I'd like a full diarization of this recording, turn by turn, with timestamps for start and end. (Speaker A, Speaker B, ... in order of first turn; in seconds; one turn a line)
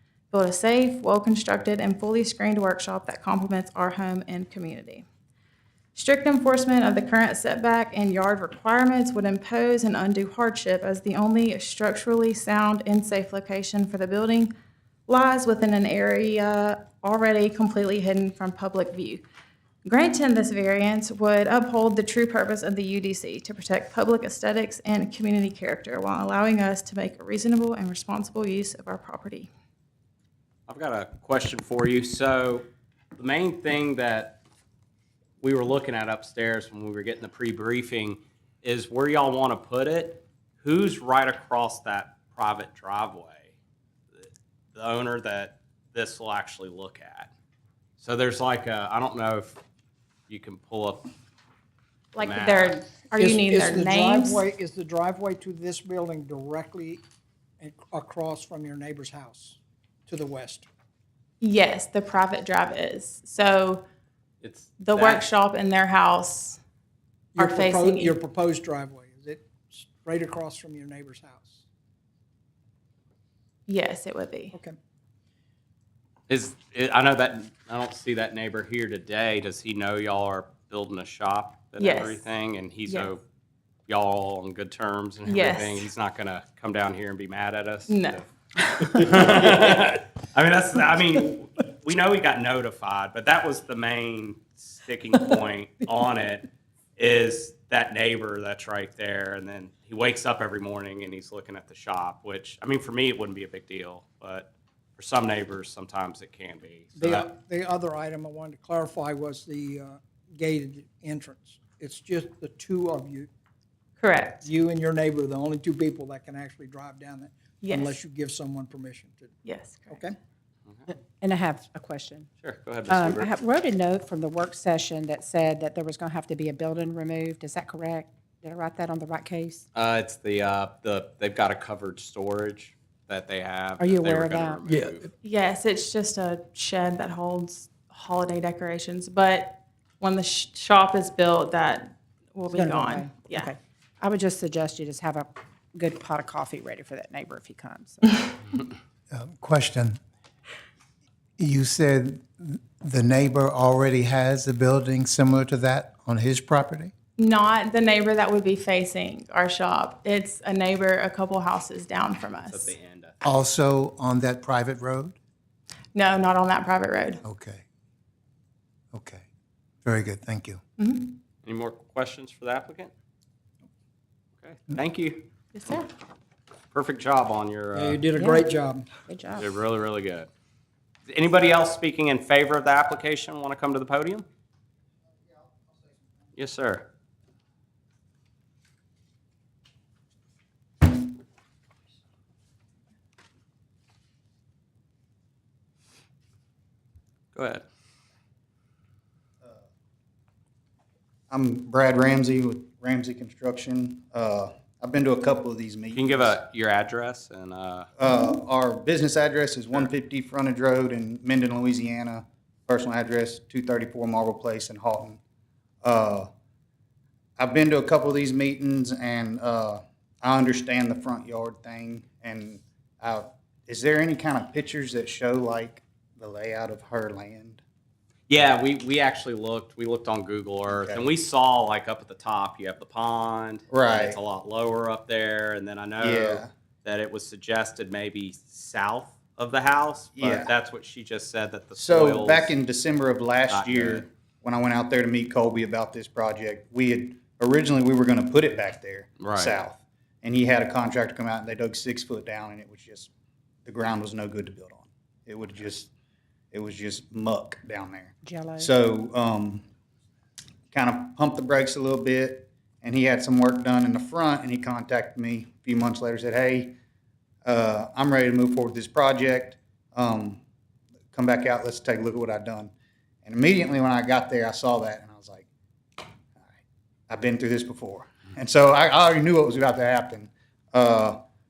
Speaker A: 0.3-5.0
Speaker A: 6.0-14.5
Speaker A: 15.1-19.2
Speaker A: 19.8-29.5
Speaker B: 30.7-34.4
Speaker B: 35.4-43.5
Speaker B: 44.1-47.3
Speaker B: 48.0-49.6
Speaker B: 50.3-51.1
Speaker A: 52.1-54.4
Speaker B: 52.2-52.7
Speaker C: 53.2-57.0
Speaker C: 57.6-60.7
Speaker A: 61.4-63.9
Speaker B: 64.4-65.2
Speaker A: 64.8-66.6
Speaker C: 67.3-71.6
Speaker A: 67.4-68.2
Speaker A: 73.7-74.5
Speaker C: 74.5-74.8
Speaker B: 76.3-83.2
Speaker A: 81.8-82.2
Speaker A: 82.9-83.1
Speaker B: 83.9-88.3
Speaker A: 85.3-85.9
Speaker A: 87.9-89.0
Speaker B: 88.8-107.3
Speaker C: 107.0-113.3
Speaker A: 114.0-114.5
Speaker C: 114.4-119.3
Speaker A: 117.6-118.0
Speaker A: 119.4-120.0
Speaker C: 119.9-120.2
Speaker D: 121.2-122.3
Speaker B: 122.4-123.3
Speaker D: 122.9-129.6
Speaker B: 129.7-135.1
Speaker D: 133.8-134.7
Speaker A: 135.2-143.5
Speaker D: 142.5-148.2
Speaker E: 149.1-150.0
Speaker E: 151.4-156.9
Speaker A: 157.2-162.7
Speaker B: 162.5-163.2
Speaker E: 163.2-165.2
Speaker A: 165.9-167.2
Speaker E: 167.2-167.6
Speaker E: 168.9-169.2
Speaker E: 169.8-170.6
Speaker A: 170.8-171.2
Speaker B: 171.4-172.9
Speaker B: 174.4-175.3
Speaker A: 175.5-175.9
Speaker B: 176.7-178.1
Speaker C: 177.7-178.9
Speaker D: 178.1-179.5
Speaker B: 179.4-180.3
Speaker B: 181.1-184.3
Speaker B: 186.4-186.9
Speaker B: 197.3-197.6
Speaker F: 201.3-206.4
Speaker B: 205.9-207.9
Speaker F: 208.0-215.2
Speaker F: 215.8-216.3
Speaker F: 217.4-227.6
Speaker B: 228.3-242.5
Speaker F: 230.7-231.1
Speaker F: 233.7-234.2
Speaker F: 236.0-236.5
Speaker F: 240.2-240.5
Speaker F: 241.8-253.1
Speaker B: 243.5-244.1
Speaker B: 249.2-249.6
Speaker F: 253.7-255.9
Speaker F: 256.5-259.6
Speaker D: 258.2-258.7
Speaker F: 260.7-266.8
Speaker F: 267.4-270.4
Speaker F: 271.1-272.7
Speaker F: 273.2-275.5
Speaker F: 277.1-281.2